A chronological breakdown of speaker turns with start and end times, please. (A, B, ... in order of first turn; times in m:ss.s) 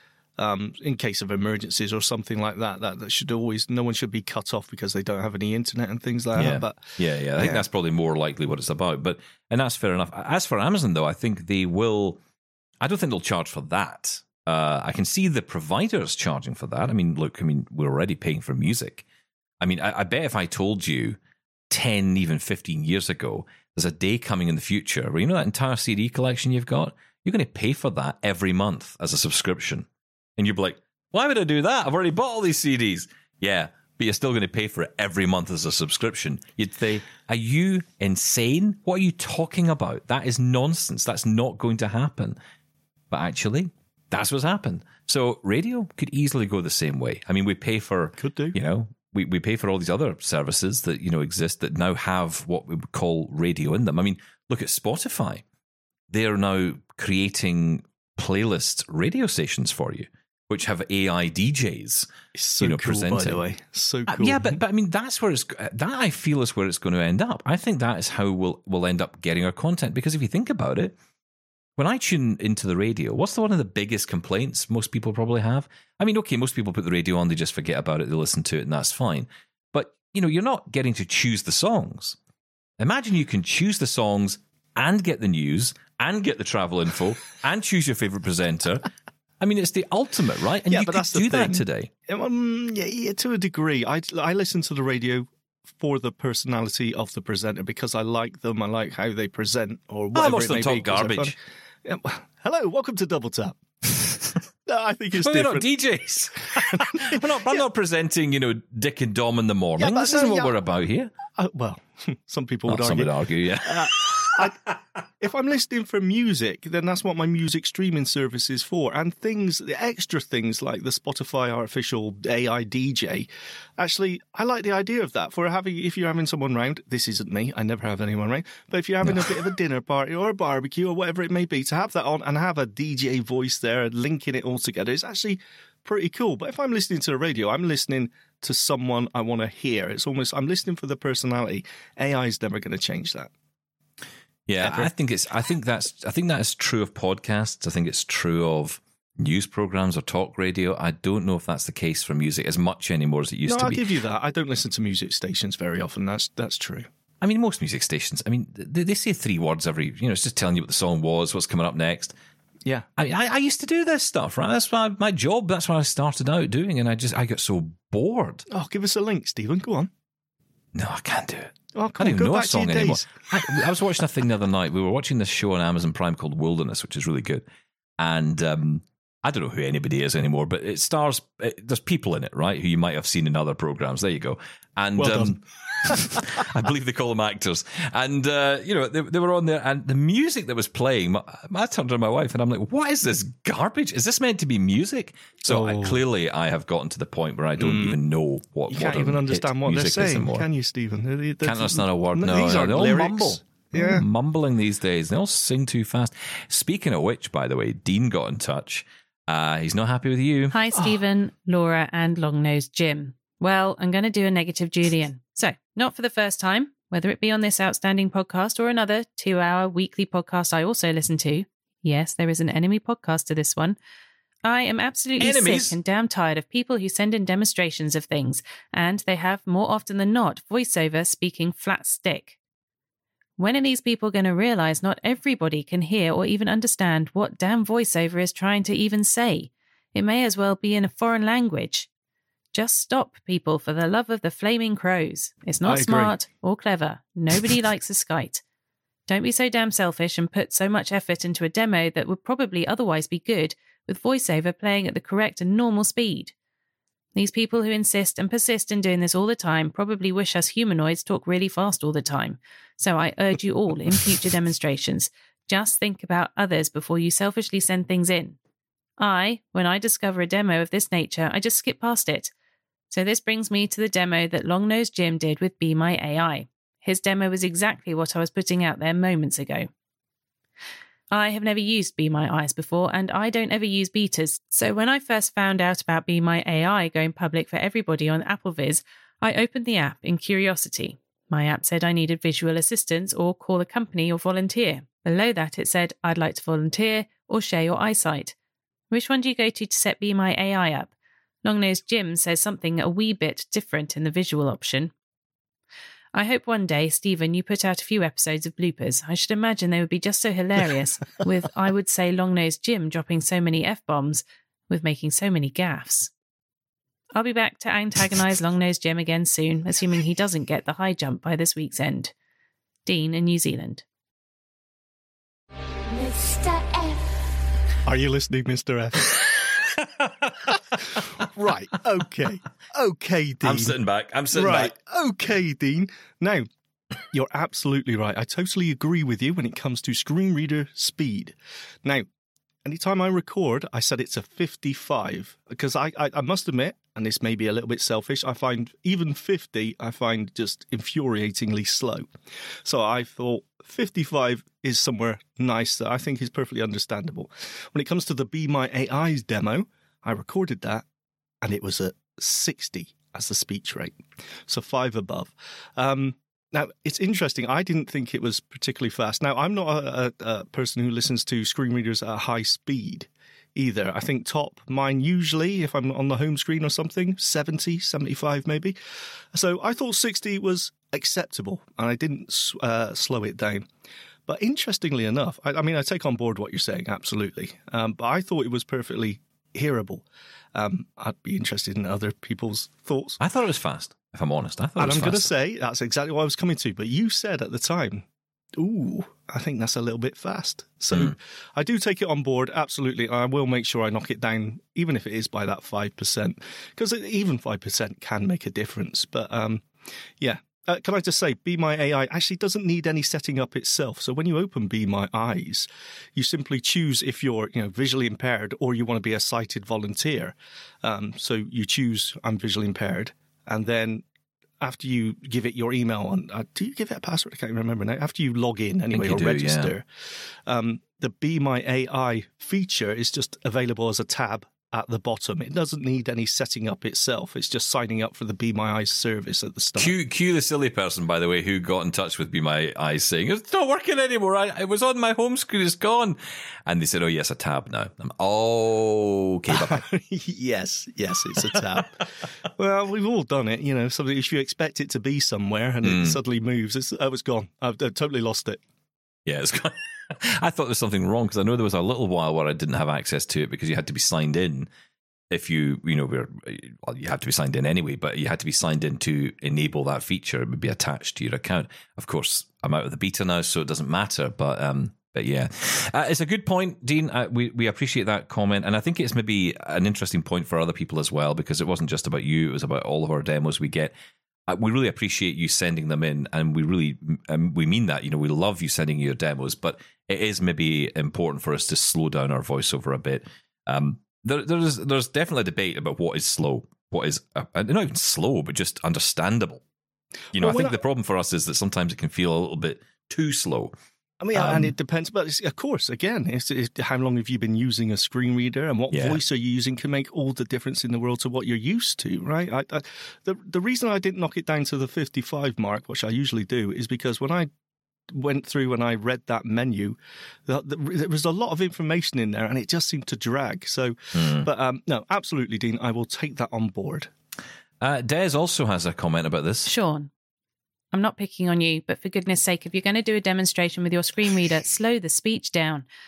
0:00.4-0:07.6 A
0:06.3-0:12.2 B
0:12.8-0:19.0 B
0:19.6-0:21.2 B
0:21.7-0:42.4 B
0:43.1-0:55.4 B
0:48.2-0:48.6 A
0:56.1-1:03.4 B
1:02.3-1:04.6 A
1:04.1-1:11.0 B
1:11.8-1:22.2 B
1:22.8-1:28.9 B
1:29.4-1:31.9 B
1:30.7-1:43.6 A
1:40.1-1:41.3 B
1:44.6-1:45.7 A
1:45.2-1:51.1 B
1:46.5-1:47.6 A
1:49.8-1:50.6 A
1:51.3-1:54.6 A
1:52.7-1:54.5 B
1:55.2-2:23.3 A
2:09.0-2:09.3 B
2:24.5-2:33.9 B
2:24.6-2:24.9 A
2:33.4-2:36.9 A
2:37.2-2:42.1 B
2:43.0-2:48.4 B
2:48.5-2:49.9 A
2:50.7-2:57.4 B
2:51.7-2:53.3 A
2:58.0-3:20.5 B
3:05.0-3:06.2 A
3:15.5-3:16.0 A
3:17.6-3:18.0 A
3:18.7-3:24.0 A
3:21.4-3:30.6 B
3:30.5-3:43.8 C
3:44.4-3:52.4 C
3:45.2-3:45.8 B
3:53.4-4:01.9 C
4:02.5-4:08.4 C
4:05.6-4:06.2 A
4:09.1-4:16.3 C
4:17.1-4:28.4 C
4:29.0-4:32.3 C
4:32.9-4:39.7 C
4:41.1-4:58.3 C
4:58.9-5:00.9 C
5:01.4-5:04.9 C
5:06.1-5:16.1 C
5:17.2-5:22.1 C
5:22.8-5:23.8 C
5:27.8-5:29.1 A
5:29.8-5:30.5 B
5:31.2-5:33.7 A
5:33.4-5:34.8 B
5:34.3-5:36.5 A
5:37.1-5:42.1 A
5:42.6-5:52.1 A
5:52.6-6:00.8 A
6:01.4-6:18.8 A
6:19.3-6:23.7 A
6:24.3-6:33.2 A
6:33.2-6:35.3 B
6:34.8-6:38.0 A
6:38.6-6:49.6 A
6:50.2-7:04.0 A
7:04.6-7:09.8 A
7:08.9-7:09.8 B
7:10.4-7:19.9 A
7:19.8-7:29.8 B
7:29.5-7:38.6 A
7:35.8-7:36.2 B
7:39.2-7:44.7 B
7:45.3-8:03.9 B
8:04.5-8:19.6 B
8:20.3-8:20.8 A
8:20.3-8:23.7 B
8:24.2-8:37.5 A
8:24.3-8:24.7 B
8:28.9-8:29.2 B
8:38.1-8:47.1 A
8:44.1-8:44.5 B
8:47.8-8:49.7 B
8:49.6-8:50.1 C
8:50.9-8:55.8 C